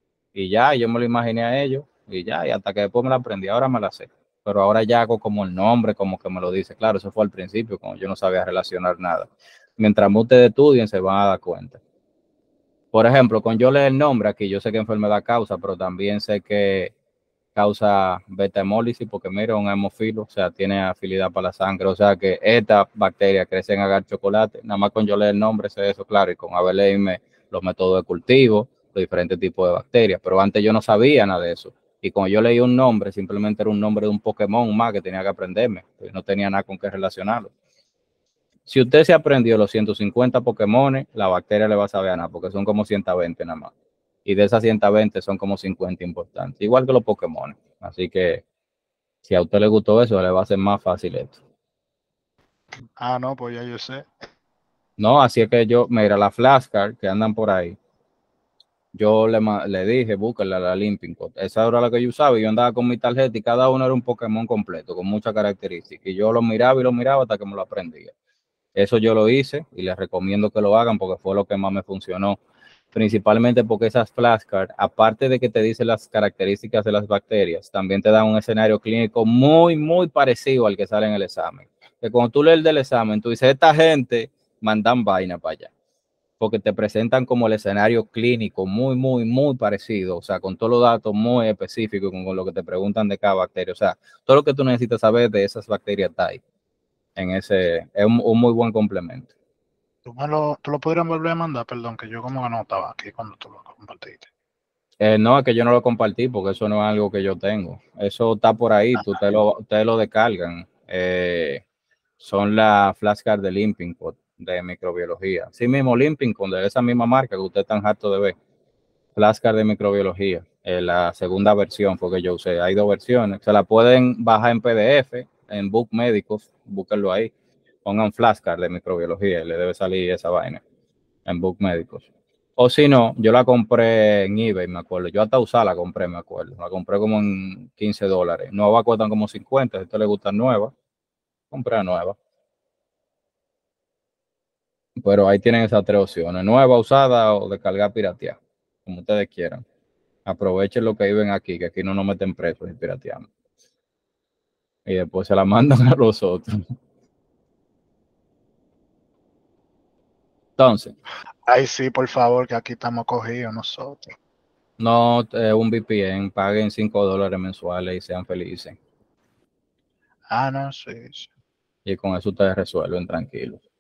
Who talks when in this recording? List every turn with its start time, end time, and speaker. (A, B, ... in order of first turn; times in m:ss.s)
0:00.3-0:11.8 A
0:12.9-0:16.9 A
0:17.5-0:37.5 A
0:38.7-0:43.7 A
0:44.2-0:48.4 A
0:49.2-0:51.4 A
0:53.0-0:54.1 B
0:55.0-0:57.8 A
0:58.9-1:08.1 A
1:08.7-1:12.4 A
1:12.9-1:25.7 A
1:26.4-1:36.4 A
1:37.2-1:39.3 A
1:40.0-1:44.3 B
1:45.0-1:51.6 A
1:52.2-1:58.4 A
1:59.2-2:07.3 A
2:07.8-2:10.6 A
2:11.2-2:20.7 A
2:21.5-2:22.2 A
2:25.0-2:29.6 A
2:30.2-2:33.2 A
2:34.8-2:36.7 A
2:40.6-2:40.9 A
2:41.5-2:44.1 B
2:44.8-2:48.8 A
2:50.3-2:51.3 B
2:51.8-2:53.6 A